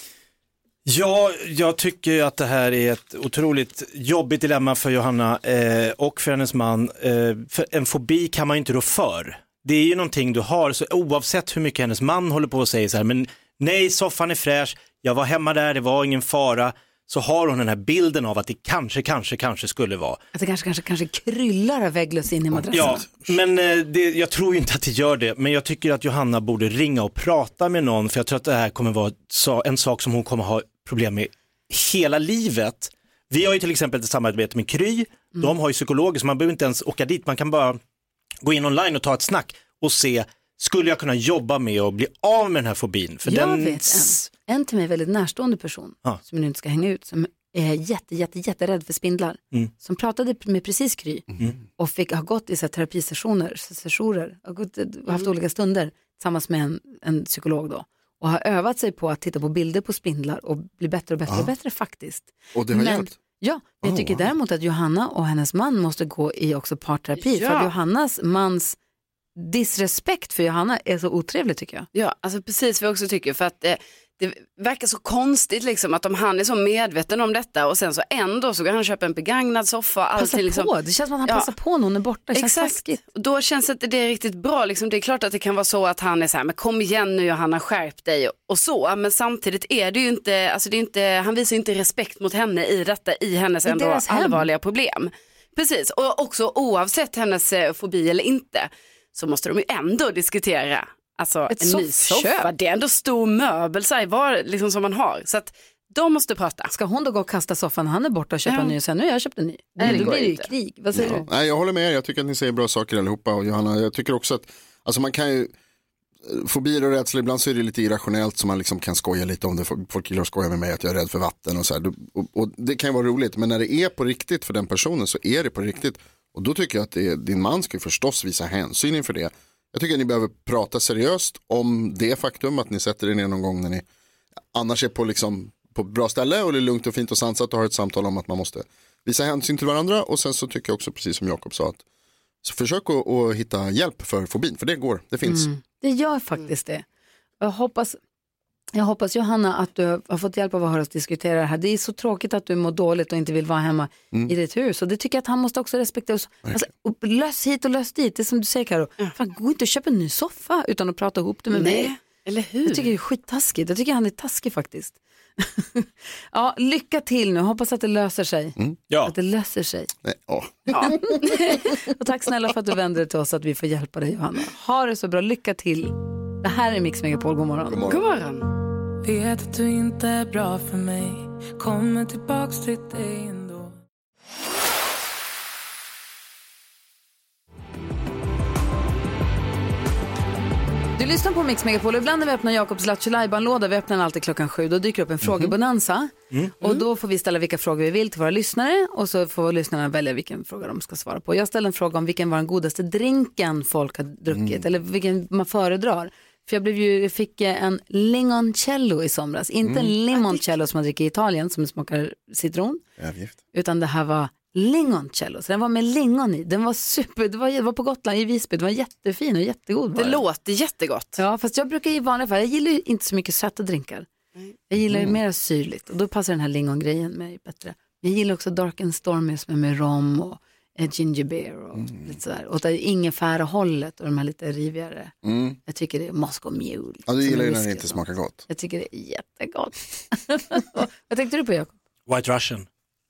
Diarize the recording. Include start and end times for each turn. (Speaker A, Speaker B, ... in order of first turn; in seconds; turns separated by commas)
Speaker A: 0.9-20.2, Speaker B: 20.3-23.0, Speaker C: 22.5-23.1, Speaker A: 22.7-37.8, Speaker A: 38.4-44.3, Speaker B: 43.2-51.2, Speaker B: 51.8-68.8, Speaker C: 62.5-63.2, Speaker C: 63.8-64.3, Speaker D: 67.2-67.7, Speaker B: 69.3-71.9, Speaker D: 71.9-80.7, Speaker B: 80.2-83.0, Speaker D: 82.3-106.7, Speaker B: 93.7-94.5, Speaker B: 101.5-102.5, Speaker B: 106.7-111.2, Speaker D: 108.5-108.8, Speaker D: 109.8-110.5, Speaker C: 109.8-110.1, Speaker C: 110.9-115.5, Speaker C: 116.2-133.8, Speaker C: 134.5-141.8, Speaker C: 142.4-145.5, Speaker B: 145.2-146.8, Speaker B: 147.4-148.0, Speaker B: 148.8-161.9, Speaker D: 161.5-162.9, Speaker B: 162.7-169.9, Speaker C: 170.0-171.2, Speaker D: 170.7-171.5, Speaker B: 170.9-177.8, Speaker C: 177.7-178.0, Speaker D: 177.9-178.5, Speaker E: 179.0-183.8, Speaker B: 190.9-212.8, Speaker C: 195.2-195.5, Speaker C: 204.3-204.6, Speaker C: 209.6-209.9, Speaker C: 213.0-213.4, Speaker B: 213.5-220.2, Speaker D: 219.9-221.2, Speaker B: 221.2-224.1, Speaker B: 224.7-235.1, Speaker C: 224.8-225.2, Speaker C: 231.8-232.1, Speaker C: 235.2-235.6, Speaker B: 235.7-241.7, Speaker C: 237.1-238.4, Speaker A: 242.1-242.7